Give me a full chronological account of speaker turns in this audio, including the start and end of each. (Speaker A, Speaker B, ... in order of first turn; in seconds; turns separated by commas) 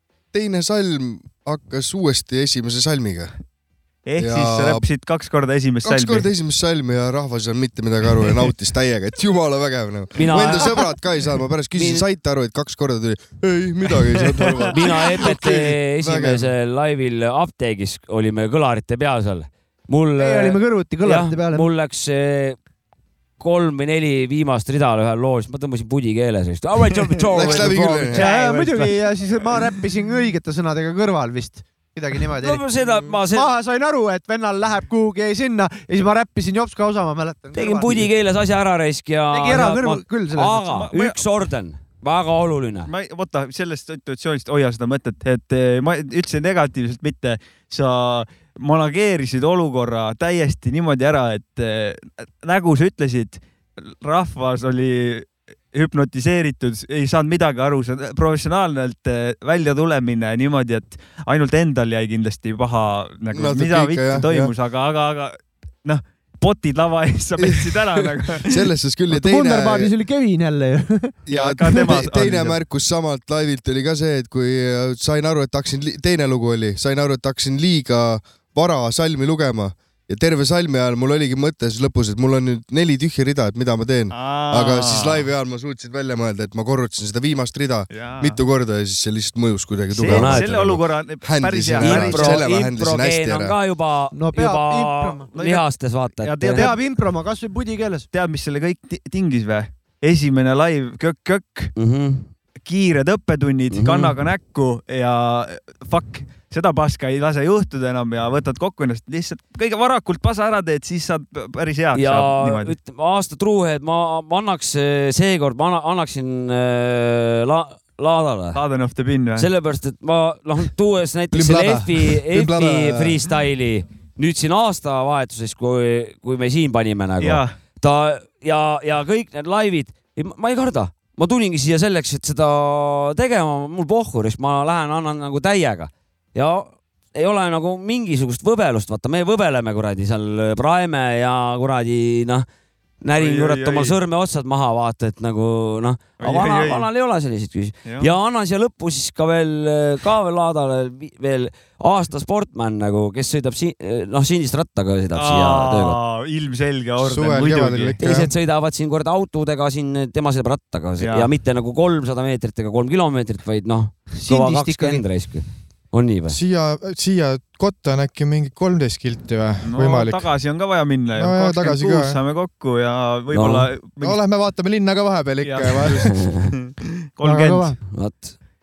Speaker A: 0.3-3.3, Speaker B: 4.0-6.3, Speaker A: 4.2-4.8, Speaker A: 5.8-16.5, Speaker C: 10.1-10.9, Speaker C: 11.7-12.1, Speaker C: 14.7-22.6, Speaker D: 20.2-21.7, Speaker C: 23.4-28.9, Speaker A: 27.3-28.2, Speaker B: 27.5-28.8, Speaker D: 28.1-32.6, Speaker C: 32.4-33.5, Speaker D: 33.3-38.1, Speaker C: 37.5-42.9, Speaker D: 39.3-40.9, Speaker B: 40.7-41.2, Speaker B: 42.9-68.7, Speaker A: 63.3-64.5, Speaker A: 67.4-69.9, Speaker D: 69.1-71.1, Speaker A: 71.2-93.5, Speaker B: 71.3-72.6, Speaker B: 84.1-85.3, Speaker B: 87.9-88.4, Speaker B: 89.9-92.4, Speaker C: 90.0-90.5, Speaker C: 91.8-96.7, Speaker D: 94.1-95.2, Speaker B: 95.3-96.8, Speaker D: 96.5-98.0, Speaker B: 98.1-101.7, Speaker C: 101.8-102.3, Speaker B: 102.6-112.7, Speaker C: 103.7-104.2, Speaker C: 111.9-118.6, Speaker B: 118.5-119.5, Speaker C: 119.4-142.4, Speaker A: 121.3-123.3, Speaker B: 127.2-127.5, Speaker C: 143.0-156.0, Speaker B: 143.2-143.9, Speaker B: 146.2-146.8, Speaker B: 147.8-148.1, Speaker B: 155.1-158.0, Speaker E: 157.0-158.3, Speaker C: 158.0-166.4, Speaker B: 161.0-161.3, Speaker D: 164.2-165.0, Speaker E: 166.3-170.2, Speaker B: 169.6-174.2, Speaker E: 171.2-172.2, Speaker C: 173.3-173.7, Speaker E: 174.0-176.3, Speaker B: 175.4-177.7, Speaker C: 176.0-176.5, Speaker D: 177.2-177.8, Speaker C: 177.9-178.3